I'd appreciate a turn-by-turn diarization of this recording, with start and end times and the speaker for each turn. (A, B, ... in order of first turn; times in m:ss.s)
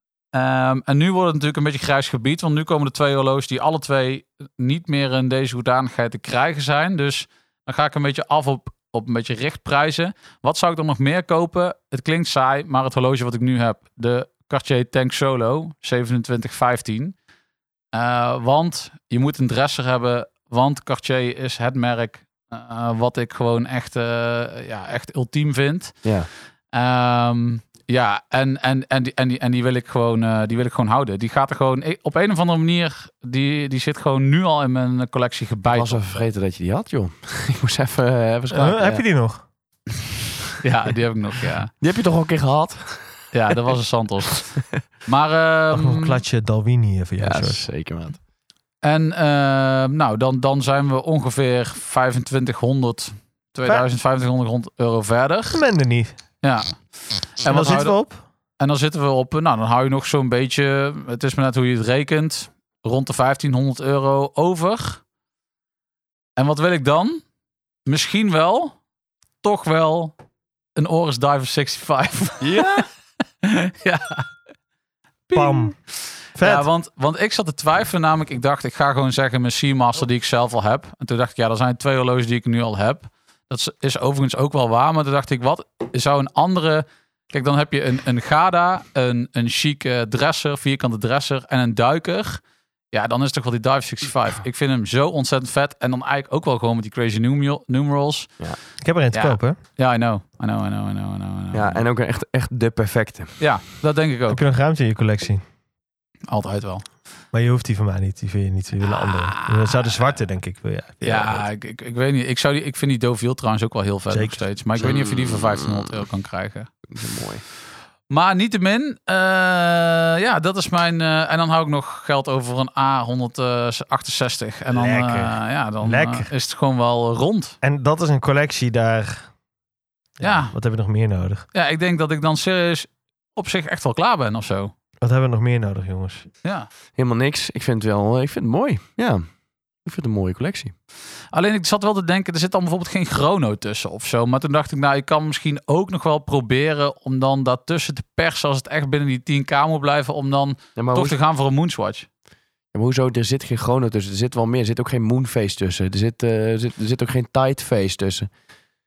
0:00.3-0:17.2 A
0:17.9-0:26.1 A
0:26.0-0:26.3 B
0:26.7-0:36.0 A
0:35.7-0:39.0 B
0:38.5-0:39.4 C
0:40.6-0:41.7 A
0:41.8-0:43.3 B
0:43.3-0:46.2 A
0:45.7-0:47.7 C
0:47.2-0:48.2 B
0:48.8-0:55.6 A
0:55.5-0:56.2 C
0:56.4-0:58.0 A
0:57.4-0:58.2 C
0:58.6-1:05.0 A
1:06.4-1:07.2 A
1:07.9-1:08.8 A
1:09.4-1:10.2 A
1:10.8-1:12.8 A
1:12.4-1:12.9 B
1:13.4-1:14.3 A
1:15.3-1:38.4 A
1:15.3-1:15.8 C
1:16.4-1:16.7 C
1:38.8-1:39.6 C
1:39.1-1:41.8 A
1:41.5-1:43.4 B
1:43.4-1:44.4 A
1:44.3-1:45.4 C
1:46.3-1:46.8 A
1:47.3-1:51.5 C
1:48.9-1:50.0 A
1:51.0-1:56.7 A
1:54.1-1:54.4 C
1:54.8-1:56.1 B
1:56.9-1:57.4 B
1:58.1-2:07.6 A
2:04.7-2:06.3 C
2:07.6-2:09.3 C
2:10.2-2:11.5 C
2:10.2-2:10.6 A
2:11.5-2:14.7 A
2:15.0-2:16.3 C
2:16.4-2:16.7 A
2:17.0-2:20.7 B
2:21.3-2:32.1 A
2:30.8-2:31.2 B
2:32.7-2:38.3 B